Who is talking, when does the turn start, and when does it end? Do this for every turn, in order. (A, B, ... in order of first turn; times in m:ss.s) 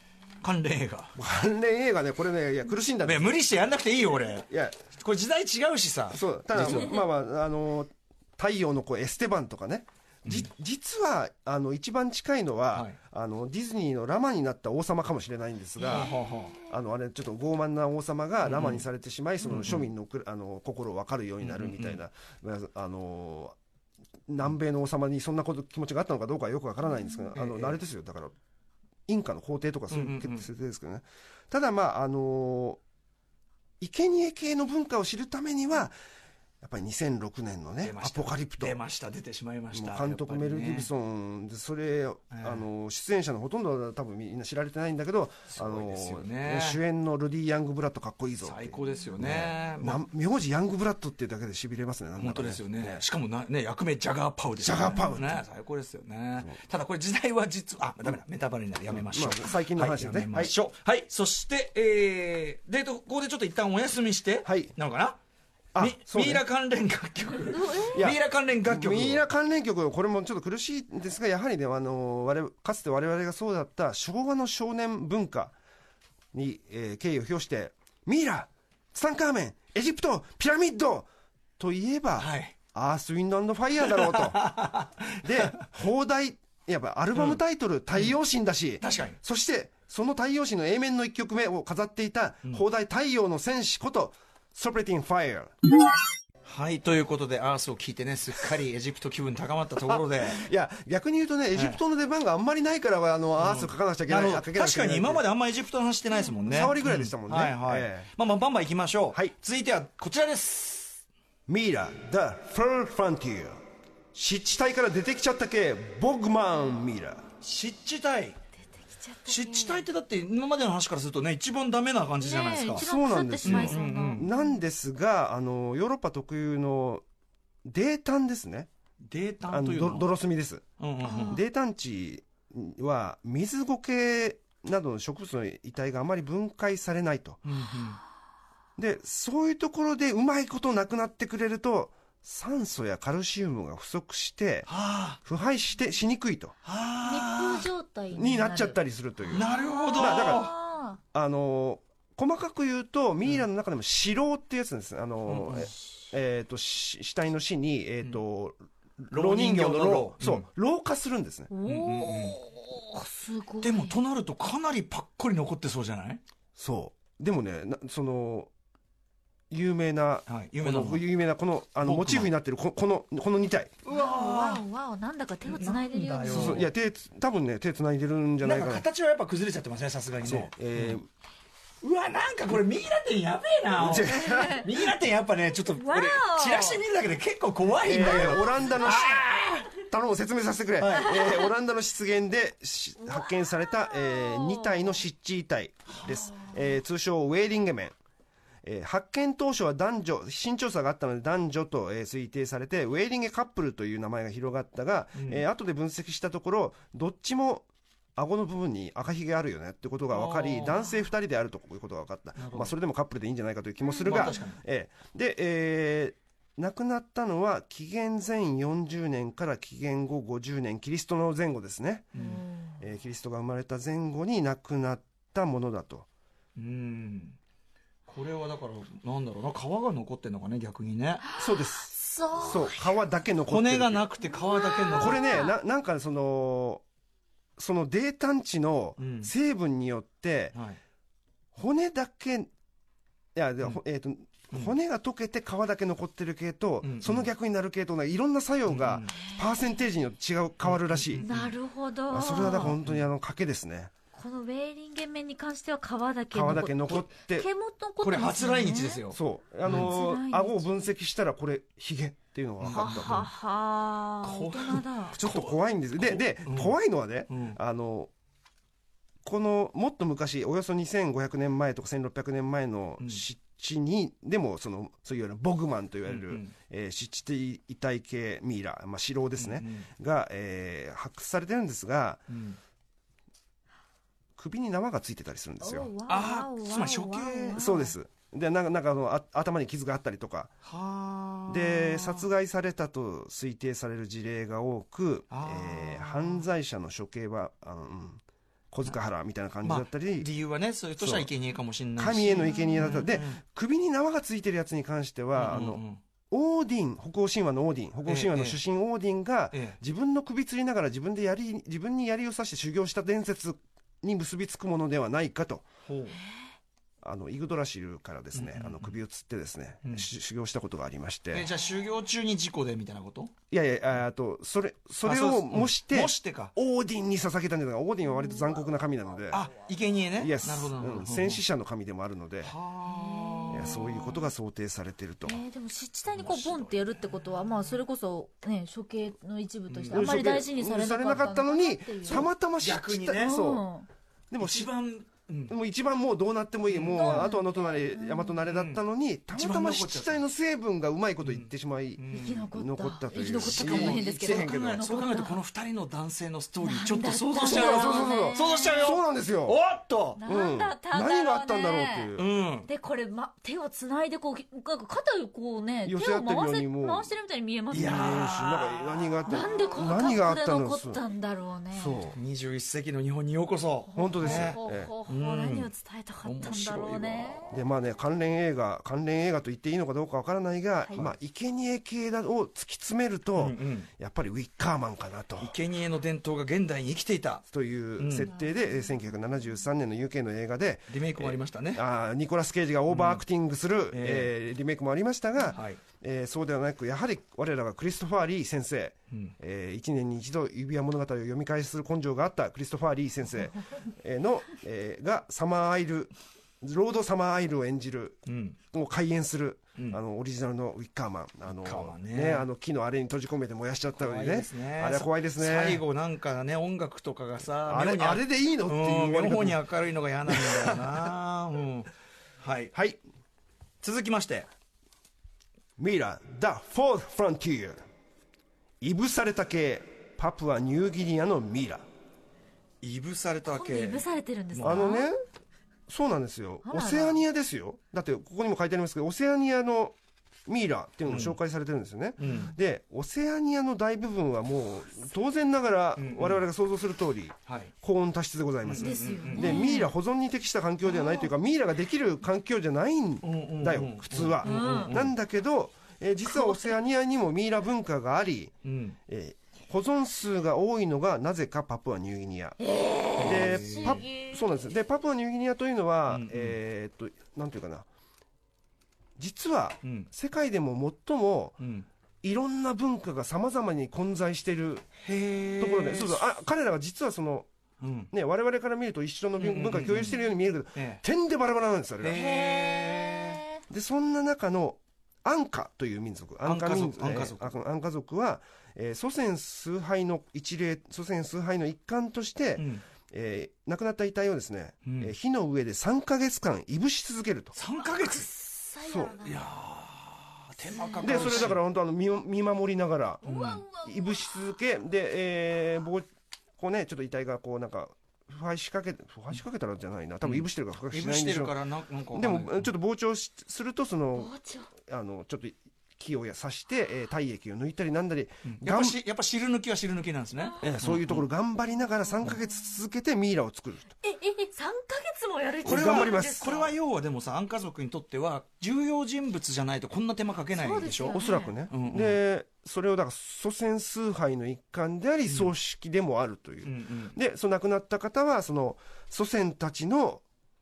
0:00.4-0:01.2 A
0:01.2-0:03.4 B
0:03.0-0:07.0 A
0:04.5-0:04.8 B
0:06.1-0:23.6 B
0:15.9-0:16.6 A
0:15.9-0:16.2 C
0:18.4-0:18.8 A
0:19.4-0:19.9 A
0:21.4-0:22.0 A
0:24.3-0:28.3 B
0:27.3-0:27.8 A
0:29.1-0:32.8 B
0:29.9-0:30.5 A
0:33.8-0:35.9 B
0:36.6-0:38.8 B
0:37.8-0:40.9 A
0:39.7-0:53.0 B
0:42.3-0:42.6 A
0:45.5-0:46.8 A
0:48.4-0:50.0 A
0:52.2-1:05.2 A
0:54.6-0:55.4 B
0:58.9-1:00.5 B
1:04.4-1:04.7 B
1:05.7-1:06.4 B
1:05.8-1:09.2 A
1:07.5-1:08.1 C
1:07.9-1:15.6 B
1:16.3-1:24.5 B
1:22.2-1:22.5 A
1:23.8-1:25.6 A
1:25.2-1:35.5 B
1:27.1-1:27.4 A
1:28.8-1:29.2 A
1:36.4-1:40.4 A
1:39.8-1:45.2 B
1:41.5-1:41.8 A
1:43.4-1:51.0 A
1:46.3-1:46.7 C
1:46.5-1:48.1 B
1:51.5-1:53.6 B
1:54.1-1:57.2 B
1:57.4-1:58.4 A
1:58.7-1:59.8 C
1:59.3-2:02.9 A
2:02.2-2:04.6 C
2:02.8-2:07.0 B
2:03.4-2:04.3 A
2:07.6-2:08.7 B
2:09.1-2:10.1 A
2:09.5-2:10.6 B
2:10.8-2:11.4 A
2:11.0-2:11.4 C
2:11.2-2:17.4 B
2:17.4-2:18.0 A
2:18.8-2:24.7 B
2:24.7-2:25.2 A
2:25.2-2:26.5 B
2:26.6-2:27.7 A
2:27.0-2:28.8 C
2:28.1-2:30.5 B
2:29.3-2:30.6 A
2:29.3-2:31.0 C
2:31.1-2:41.5 B
2:35.2-2:35.7 A
2:39.1-2:40.4 A
2:41.5-2:44.0 C
2:41.6-2:42.4 A
2:43.6-2:46.2 A
2:46.6-2:48.5 B
2:49.5-2:53.7 B
2:50.3-2:51.1 A
2:51.8-2:52.3 A
2:53.8-2:54.6 A
2:53.9-2:56.6 C
2:55.5-2:56.7 A
2:56.2-2:58.8 B
2:58.4-3:01.0 A
3:00.2-3:01.1 B
3:01.8-3:09.7 A
3:03.7-3:04.7 B
3:04.0-3:04.7 C
3:05.7-3:06.8 C
3:07.8-3:18.0 B
3:08.0-3:08.5 C
3:10.8-3:11.4 A
3:13.1-3:15.0 C
3:18.6-3:42.1 B
3:25.2-3:25.4 A
3:30.1-3:30.9 A
3:32.4-3:32.7 A
3:33.8-3:34.4 C
3:34.0-3:34.6 A
3:42.1-3:42.4 A
3:42.1-3:42.8 C
3:42.8-3:46.1 B
3:46.6-3:47.4 A
3:48.1-3:51.2 A
3:51.2-3:53.0 C
3:51.4-3:54.0 B
3:53.5-3:55.4 A
3:54.3-3:55.5 C
3:54.9-3:56.8 B
3:57.6-4:00.5 B
3:59.0-3:59.3 A
4:01.5-4:02.5 B
4:03.3-4:11.2 B
4:06.8-4:07.3 A
4:08.7-4:09.2 A
4:10.6-4:11.5 A
4:11.2-4:12.8 C
4:12.1-4:13.9 B
4:12.4-4:13.1 A
4:14.1-4:19.0 C
4:16.3-4:17.5 B
4:18.0-4:19.9 A
4:19.1-4:23.3 B
4:19.7-4:20.6 C
4:22.6-4:23.3 A
4:22.7-4:25.2 C
4:24.2-4:26.7 A
4:25.2-4:28.1 B
4:27.3-4:27.6 A
4:29.2-4:42.3 B
4:36.1-4:36.5 A
4:39.4-4:39.9 A
4:42.3-4:42.6 A
4:44.4-4:45.9 B
4:45.6-4:47.9 C
4:46.1-4:47.7 A
4:47.5-4:50.5 B
4:50.6-4:52.3 A
4:51.5-5:00.3 B
4:55.3-4:56.4 A
4:59.6-5:03.4 A
5:01.0-5:01.3 B
5:02.0-5:15.6 B
5:02.3-5:03.1 C
5:05.4-5:06.0 A
5:08.1-5:08.6 A
5:09.5-5:09.8 A
5:15.8-5:16.2 A
5:17.0-5:21.5 B
5:18.3-5:18.9 A
5:21.3-5:23.3 A
5:23.5-5:29.5 B
5:25.0-5:26.5 A
5:29.3-5:31.4 A
5:30.2-5:32.5 B
5:32.4-5:34.1 A
5:32.8-5:34.2 C
5:33.5-5:35.4 B
5:35.2-5:42.3 C
5:36.1-5:37.0 A
5:39.7-5:40.1 A
5:39.9-5:43.6 B
5:42.1-5:43.4 A
5:43.2-5:43.9 C
5:44.3-5:44.7 B
5:44.4-5:45.5 A
5:45.5-5:54.8 B
5:46.7-5:47.3 A
5:46.9-5:48.3 C
5:48.5-5:50.2 A
5:51.2-5:52.5 A
5:52.1-5:55.4 C
5:53.3-6:00.2 A
5:56.6-5:59.0 C
5:57.4-5:59.6 B
6:00.2-6:02.1 C
6:00.2-6:02.3 B
6:02.2-6:02.7 A
6:02.6-6:08.4 C
6:05.8-6:07.1 B
6:07.7-6:09.4 A
6:07.8-6:11.0 B
6:09.2-6:12.0 C
6:11.7-6:12.2 B
6:12.1-6:15.7 A
6:13.9-6:17.5 C
6:13.9-6:14.9 B
6:16.2-6:17.4 A
6:17.5-6:25.6 B
6:23.4-6:23.9 A
6:25.4-6:27.4 A
6:27.5-6:48.2 B
6:28.0-6:28.3 A
6:30.9-6:31.8 A
6:32.9-6:33.2 A
6:33.9-6:34.3 A
6:35.5-6:35.8 A
6:48.3-6:48.6 A
6:48.7-6:55.8 B
6:51.6-6:52.4 A
6:54.0-7:02.7 A
6:57.6-6:59.6 B
7:00.3-7:01.0 B
7:02.7-7:03.0 B
7:03.8-7:04.5 A
7:05.8-7:07.8 B
7:08.8-7:11.8 B
7:12.8-7:14.9 A
7:13.5-7:15.1 C
7:14.6-7:15.2 B
7:15.9-7:19.9 B
7:16.6-7:17.2 C
7:20.4-7:38.5 B
7:21.1-7:21.4 A
7:22.2-7:22.5 A
7:22.2-7:22.5 C
7:26.0-7:26.4 A
7:27.5-7:27.7 A
7:28.6-7:29.8 A
7:28.8-7:29.9 C
7:30.9-7:31.3 C
7:33.2-7:35.1 A
7:34.4-7:34.9 C
7:36.2-7:36.7 C
7:38.6-7:39.0 A
7:39.1-7:42.6 B
7:42.6-7:44.4 C
7:43.2-7:44.0 A
7:43.2-7:47.9 B
7:46.1-7:46.6 A
7:49.2-7:51.6 B
7:49.8-7:50.1 A
7:51.6-7:51.9 A
7:52.2-7:54.9 B
7:55.0-7:56.2 A
7:55.6-7:57.5 B
7:57.8-7:58.1 A
7:58.1-8:02.2 B
7:59.4-8:00.2 A
8:00.7-8:01.0 A
8:02.0-8:03.4 A
8:02.1-8:03.6 C
8:03.7-8:17.6 B
8:06.4-8:07.5 A
8:12.6-8:12.8 A
8:14.8-8:15.1 A
8:17.5-8:18.3 A
8:17.8-8:19.4 C
8:18.8-8:19.2 B
8:19.2-8:21.6 A
8:20.7-8:21.5 C
8:21.0-8:26.0 B
8:23.2-8:24.3 C
8:23.2-8:23.6 A
8:26.6-8:31.5 B
8:30.2-8:32.7 A
8:32.1-8:39.0 B
8:34.2-8:34.7 C
8:38.4-8:41.2 A
8:40.6-8:43.9 B
8:44.0-8:46.7 C
8:45.6-8:46.5 B
8:45.6-8:52.2 A
8:50.6-8:51.5 C
8:51.1-9:00.2 B
8:56.6-8:57.1 A